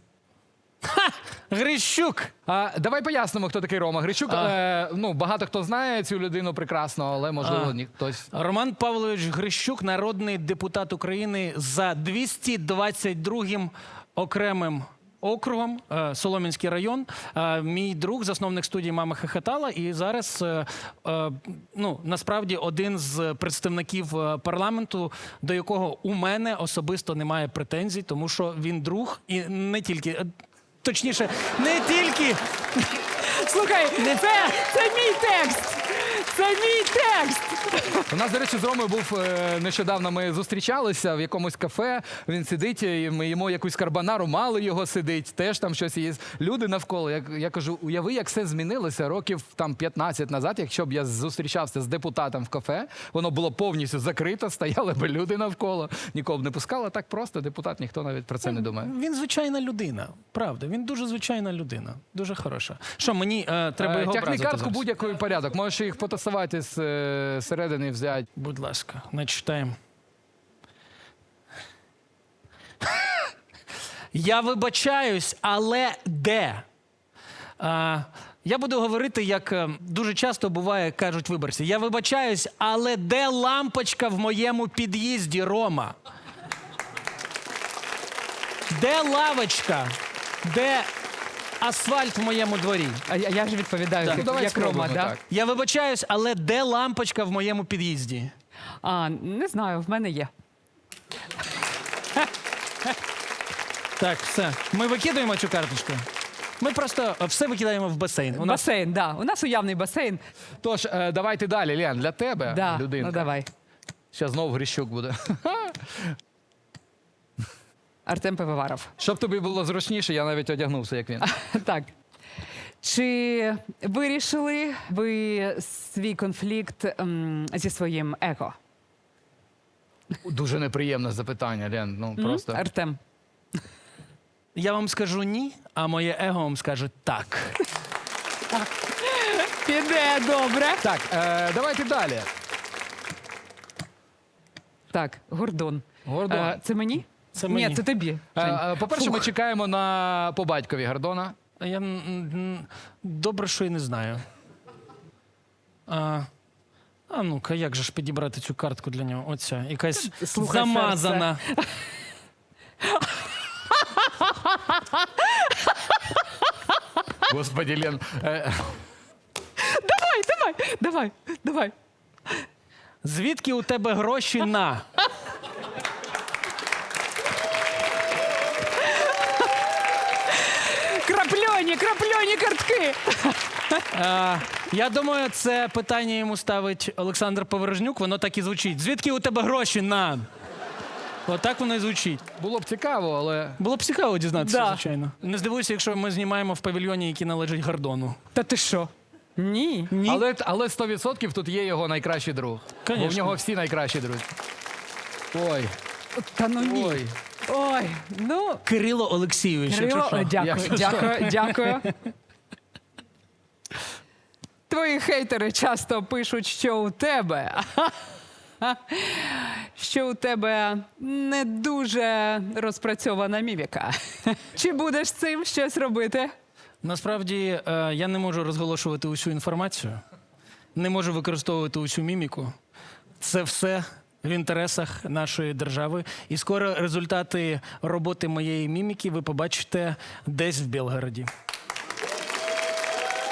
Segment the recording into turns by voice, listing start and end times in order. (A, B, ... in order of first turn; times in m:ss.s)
0:00.8-0:02.3 A
0:02.5-0:08.2 B
0:04.3-0:04.5 A
0:07.4-0:07.8 A
0:08.3-0:30.3 A
0:30.8-0:33.0 A
0:33.2-0:38.0 C
0:34.0-0:34.6 A
0:38.1-0:58.9 B
0:58.4-1:04.8 A
1:03.8-1:08.2 B
1:08.4-1:09.8 A
1:14.1-1:16.6 A
1:17.6-1:26.0 A
1:28.7-1:30.9 A
1:31.6-1:33.0 A
1:33.1-1:35.2 C
1:34.0-1:35.2 B
1:35.3-1:38.3 A
1:38.8-1:40.3 C
1:44.0-1:46.1 A
1:46.6-1:48.6 A
1:48.3-1:50.2 C
1:50.6-1:53.3 B
1:52.5-1:53.5 C
1:54.1-1:56.1 B
1:58.1-1:58.9 C
1:59.0-2:01.3 B
2:01.2-2:01.9 C
2:02.8-2:08.6 C
2:10.2-2:12.6 B
2:12.2-2:13.0 C
2:14.6-2:17.7 A
2:19.0-2:20.8 C
2:20.8-2:22.3 B
2:24.9-2:29.3 C
2:26.0-2:26.6 B
2:27.4-2:27.8 A
2:28.4-2:31.4 B
2:31.6-2:34.2 A
2:35.9-2:36.3 A
2:37.1-2:41.4 A
2:40.0-2:41.9 C
2:42.8-2:46.2 C
2:47.3-2:48.8 B
2:49.6-2:51.7 C
2:53.0-2:54.8 A
2:58.8-2:59.5 C
3:00.3-3:03.8 C
3:03.9-3:10.3 A
3:11.3-3:12.2 A
3:12.4-3:13.6 B
3:13.6-3:18.2 A
3:14.4-3:14.8 C
3:18.3-3:19.9 C
3:19.9-3:20.2 A
3:20.1-3:24.3 B
3:22.9-3:23.4 A
3:25.3-3:25.7 B
3:26.2-3:28.6 C
3:26.6-3:27.1 B
3:28.7-3:31.9 A
3:29.7-3:31.9 C
3:30.4-3:31.2 B
3:34.7-3:38.1 C
3:38.6-3:46.3 C
3:46.8-3:50.0 A
3:50.8-3:52.5 A
3:53.2-4:01.3 A